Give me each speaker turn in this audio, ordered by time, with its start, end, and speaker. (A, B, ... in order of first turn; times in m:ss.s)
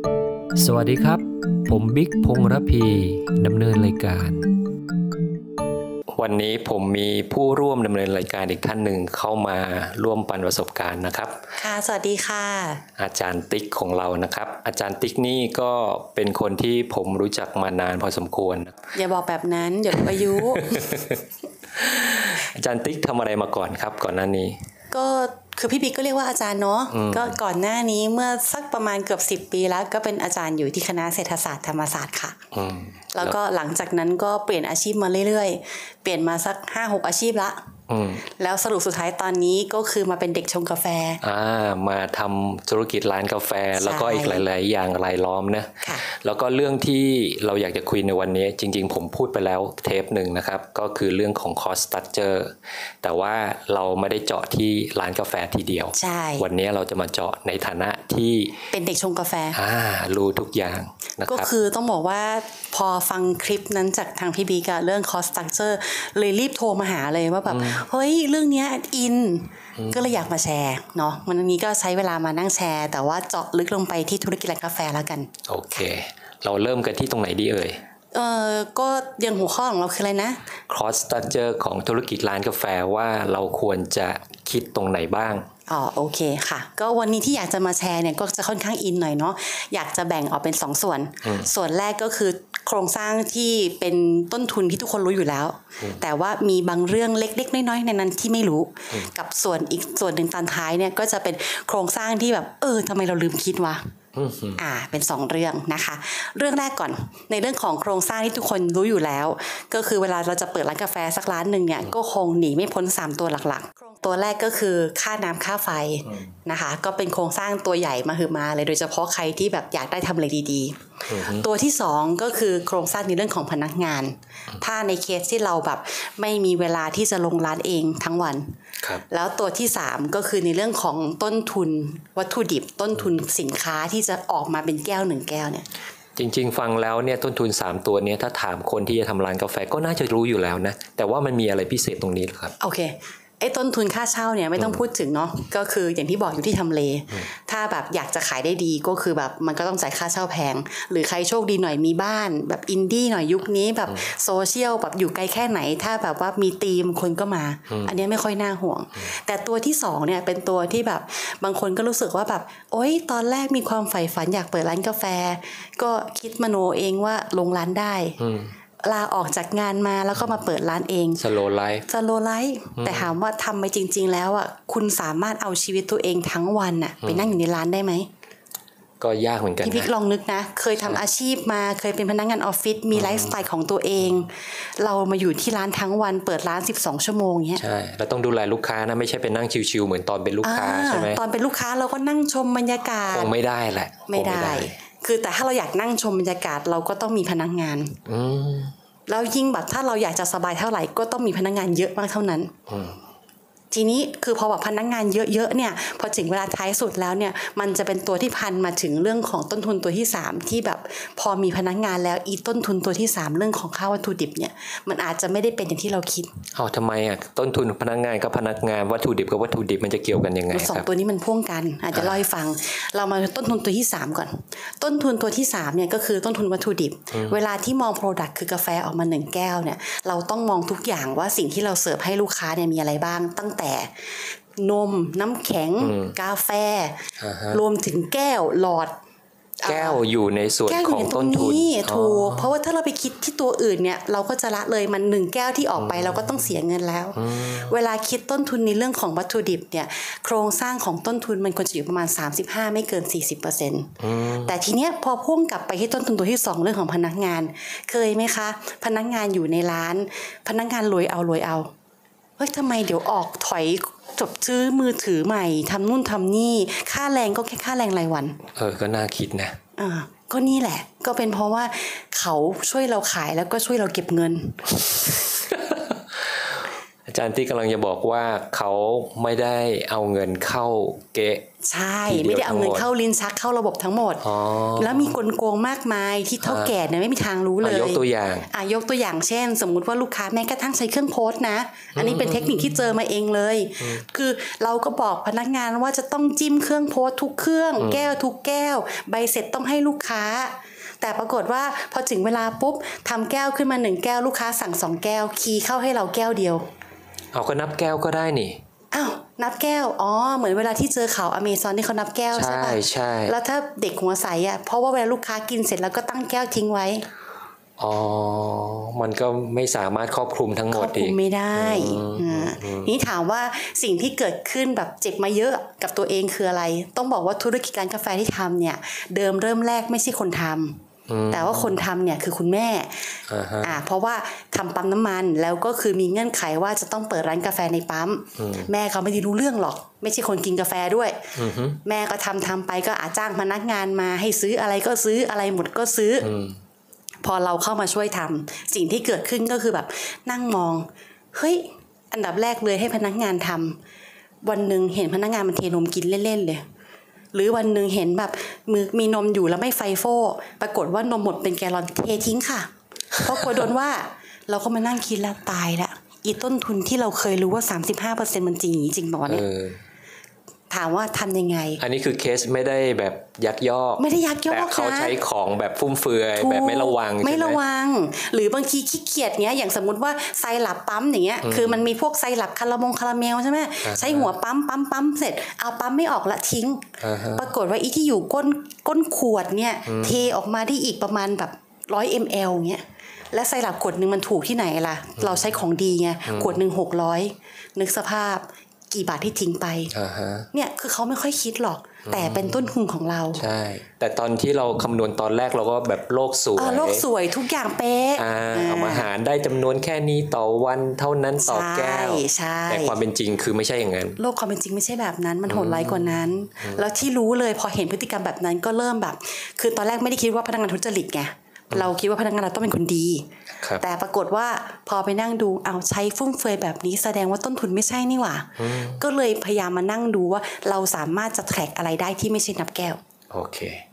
0:00.6-0:04.5 A
0:06.1-0:11.4 A
0:11.6-0:12.8 B
0:13.0-0:18.8 A
0:18.9-0:20.9 B
0:19.9-0:21.2 A
0:21.8-0:24.6 A
0:24.9-0:32.4 B
0:26.9-0:27.4 A
0:32.5-0:33.4 A
0:33.1-0:37.6 B
0:37.9-0:38.2 A
0:38.3-0:41.2 B
0:41.2-0:58.6 A
0:43.7-0:44.4 B
0:55.9-0:56.5 B
0:58.7-0:59.6 B
0:59.5-1:01.5 A
1:01.3-1:15.3 B
1:07.5-1:07.8 A
1:09.8-1:10.2 A
1:15.5-1:17.8 A
1:18.1-1:20.4 B
1:20.7-1:25.4 A
1:25.7-1:43.8 B
1:31.2-1:31.5 A
1:44.1-1:44.6 A
1:44.6-2:08.5 B
2:01.1-2:01.5 A
2:09.1-2:15.6 B
2:16.2-2:22.5 A
2:22.6-2:48.2 B
2:37.7-2:38.0 A
2:48.2-2:48.5 A
2:48.8-2:51.2 B
2:51.2-2:51.9 A
2:51.9-2:58.1 B
2:52.8-2:53.1 A
2:57.0-2:57.4 A
2:59.0-2:59.9 A
2:59.6-3:07.6 B
3:02.9-3:03.4 A
3:07.6-3:11.2 A
3:10.4-3:13.3 B
3:13.1-3:14.7 A
3:14.1-3:18.0 B
3:18.0-3:18.7 A
3:19.1-3:22.5 B
3:22.7-3:23.0 A
3:23.7-3:36.3 B
3:36.5-3:40.8 A
3:40.5-3:59.0 B
3:47.1-3:47.4 A
3:55.8-3:56.2 A
3:57.2-3:57.6 A
3:59.6-4:00.0 B
3:59.6-4:02.5 A
4:00.6-4:21.7 B
4:05.8-4:06.4 A
4:07.1-4:07.7 A
4:14.0-4:14.6 A
4:22.4-4:28.4 B
4:28.5-4:29.6 A
4:29.8-4:35.2 B
4:35.7-4:36.5 A
4:37.1-4:41.4 A
4:41.6-4:44.2 B
4:42.0-4:42.9 A
4:44.2-4:45.2 A
4:44.8-5:06.7 B
4:46.4-4:46.7 A
4:47.6-4:48.5 A
4:51.9-4:52.8 A
4:53.8-4:54.0 A
4:57.8-4:58.1 A
5:07.3-5:08.6 A
5:08.9-5:17.0 B
5:12.3-5:13.4 A
5:17.8-5:22.9 A
5:20.7-5:41.3 B
5:31.1-5:31.8 A
5:33.3-5:33.8 A
5:38.4-5:38.7 A
5:41.3-5:41.8 A
5:41.8-5:46.3 B
5:46.2-5:46.6 A
5:47.2-5:53.8 B
5:54.4-5:56.6 B
5:57.3-6:09.4 B
6:09.3-6:09.8 A
6:10.7-6:11.8 B
6:11.8-6:17.6 A
6:14.0-6:15.2 B
6:16.4-6:39.9 B
6:21.4-6:21.8 A
6:23.8-6:24.3 A
6:27.0-6:27.5 A
6:29.9-6:30.2 A
6:35.2-6:35.6 A
6:36.2-6:36.6 A
6:39.9-6:40.5 A
6:40.5-6:43.4 B
6:42.0-6:42.7 A
6:43.3-6:47.0 A
6:46.6-6:49.1 B
6:48.2-6:54.2 A
6:51.4-6:53.0 B
6:54.2-7:03.3 B
6:55.5-6:56.9 A
7:03.8-7:13.0 B
7:08.6-7:09.0 A
7:13.3-7:13.8 A